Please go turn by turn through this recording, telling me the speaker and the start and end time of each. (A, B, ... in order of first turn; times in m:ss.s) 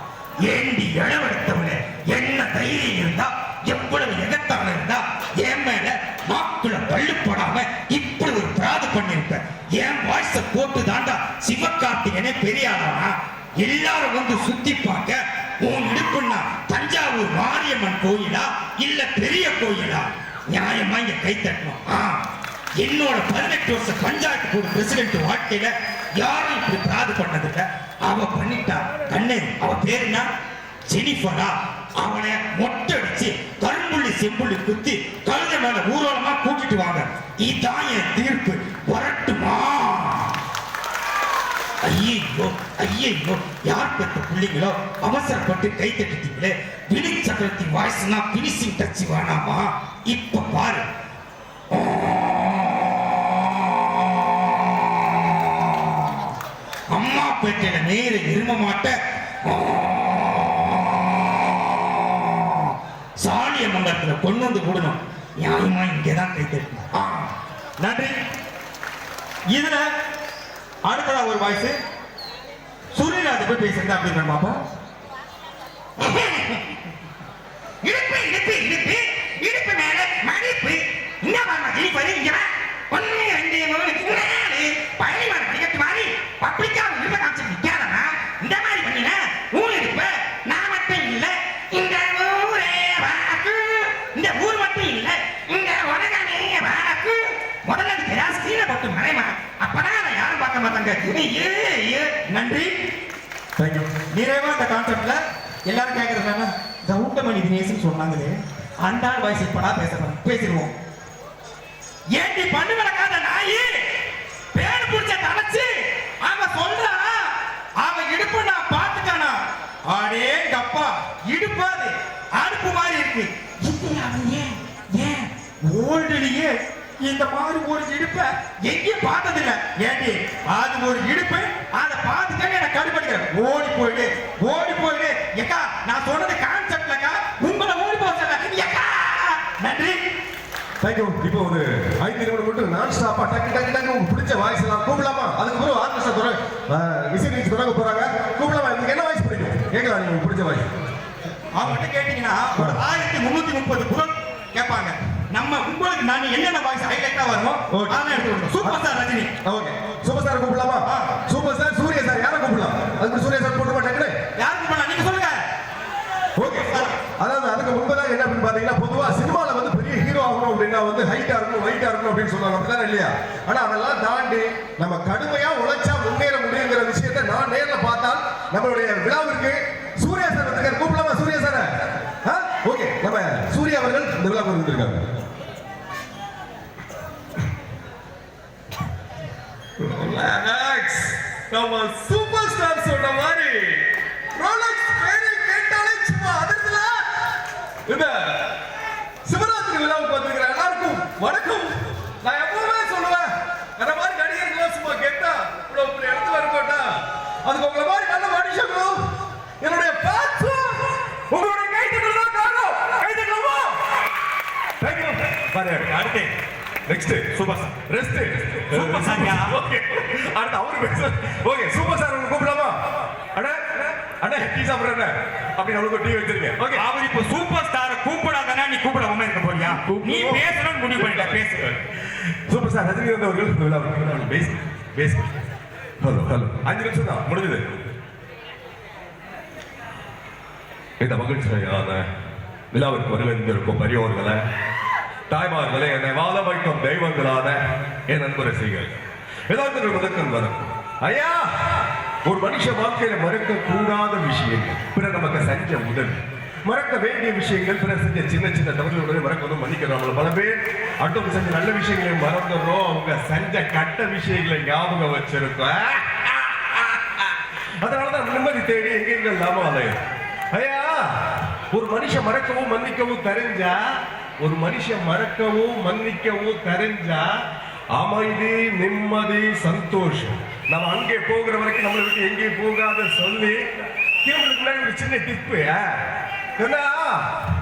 0:00.4-0:22.2 A
0:22.8-0:30.2 A
0:30.9-0:40.4 A
0:41.8-0:50.8 A
0:51.7-0:56.3 A
0:56.9-1:07.3 A
1:07.8-1:08.1 B
1:09.5-1:09.8 B
1:10.8-1:11.7 B
1:12.9-1:14.6 B
1:16.0-1:16.6 A
1:17.8-1:42.2 A
1:42.2-1:42.7 B
1:43.6-1:43.9 C
1:44.1-1:50.7 B
1:52.2-1:53.8 B
1:54.5-1:59.4 B
1:59.9-2:06.5 B
2:07.0-2:20.0 B
2:20.8-2:30.7 C
2:31.5-2:39.3 B
2:32.6-2:32.8 C
2:37.7-2:38.8 C
2:39.4-2:44.1 C
2:40.8-2:41.1 B
2:44.4-2:45.3 B
2:46.4-3:01.7 C
2:46.5-2:47.0 B
3:02.2-3:05.0 C
3:09.8-3:13.8 C
3:14.3-3:17.0 C
3:17.8-3:18.4 C
3:19.2-3:29.0 C
3:29.6-3:33.8 C
3:34.8-3:35.9 C
3:35.7-3:36.3 B
3:36.9-3:37.3 C
3:37.3-3:37.7 B
3:37.9-3:42.8 C
3:38.7-3:39.5 B
3:43.3-3:46.8 C
3:46.7-3:51.7 B
3:49.6-3:55.3 C
3:56.0-3:57.8 C
4:01.0-4:02.0 C
4:02.7-4:04.4 C
4:05.3-4:08.9 C
4:09.5-4:27.2 C
4:27.8-4:30.0 C
4:30.5-4:33.8 C
4:34.4-4:37.3 C
4:37.9-4:43.6 C
4:44.2-4:46.0 C
4:46.6-4:47.2 C